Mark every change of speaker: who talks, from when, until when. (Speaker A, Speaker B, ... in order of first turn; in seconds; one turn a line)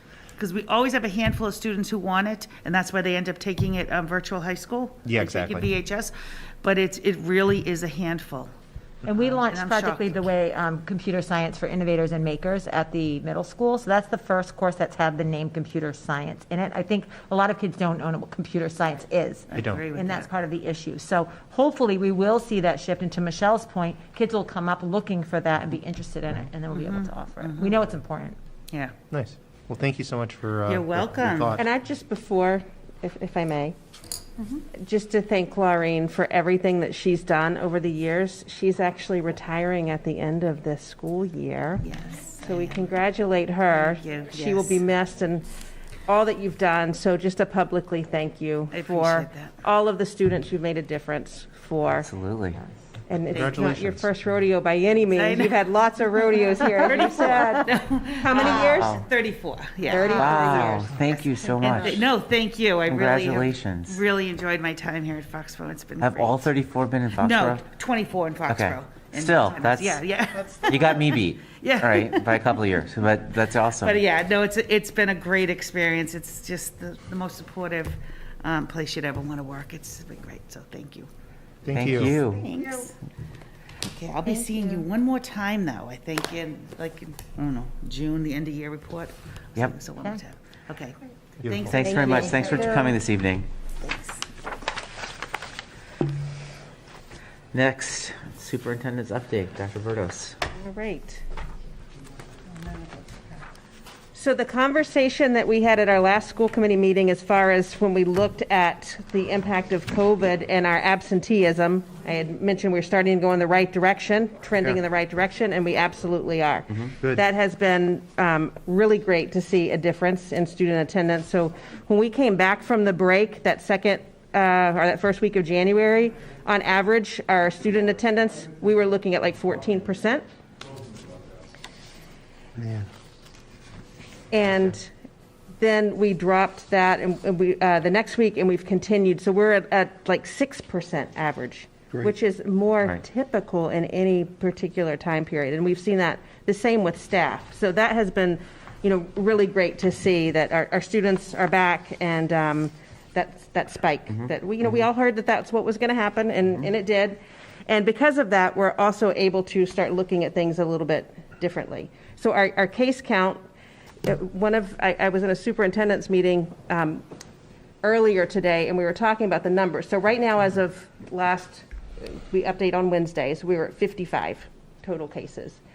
Speaker A: 0.4-8.5
Speaker B: 5.0-5.7
Speaker C: 9.0-28.4
Speaker A: 9.1-10.2
Speaker A: 19.5-20.3
Speaker B: 19.5-19.8
Speaker A: 26.7-27.7
Speaker B: 29.1-31.6
Speaker A: 30.7-31.6
Speaker D: 31.6-33.8
Speaker D: 34.7-41.9
Speaker A: 41.8-43.0
Speaker D: 42.4-45.5
Speaker A: 43.7-44.8
Speaker D: 46.1-52.1
Speaker A: 48.7-49.5
Speaker E: 51.9-52.6
Speaker D: 53.1-59.0
Speaker B: 53.3-54.2
Speaker A: 55.1-55.6
Speaker A: 56.4-60.7
Speaker E: 58.4-59.0
Speaker D: 59.9-61.2
Speaker C: 59.9-60.2
Speaker E: 60.1-62.0
Speaker C: 61.6-62.0
Speaker A: 61.6-66.5
Speaker E: 62.9-64.0
Speaker E: 66.0-67.6
Speaker A: 67.2-72.7
Speaker E: 68.5-70.0
Speaker E: 70.7-74.0
Speaker A: 73.7-81.1
Speaker B: 81.6-82.1
Speaker E: 81.7-82.5
Speaker A: 81.9-82.9
Speaker C: 82.5-82.9
Speaker A: 83.8-92.9
Speaker C: 84.2-84.8
Speaker B: 91.4-91.8
Speaker E: 91.7-93.5
Speaker D: 91.8-92.9
Speaker C: 92.1-92.9
Speaker A: 93.8-94.2
Speaker E: 97.5-100.4
Speaker D: 100.5-101.2
Speaker D: 104.1-130.2
Speaker B: 132.6-132.9
Speaker D: 134.3-134.9
Speaker D: 135.6-163.4
Speaker D: 164.0-167.0
Speaker D: 167.8-175.6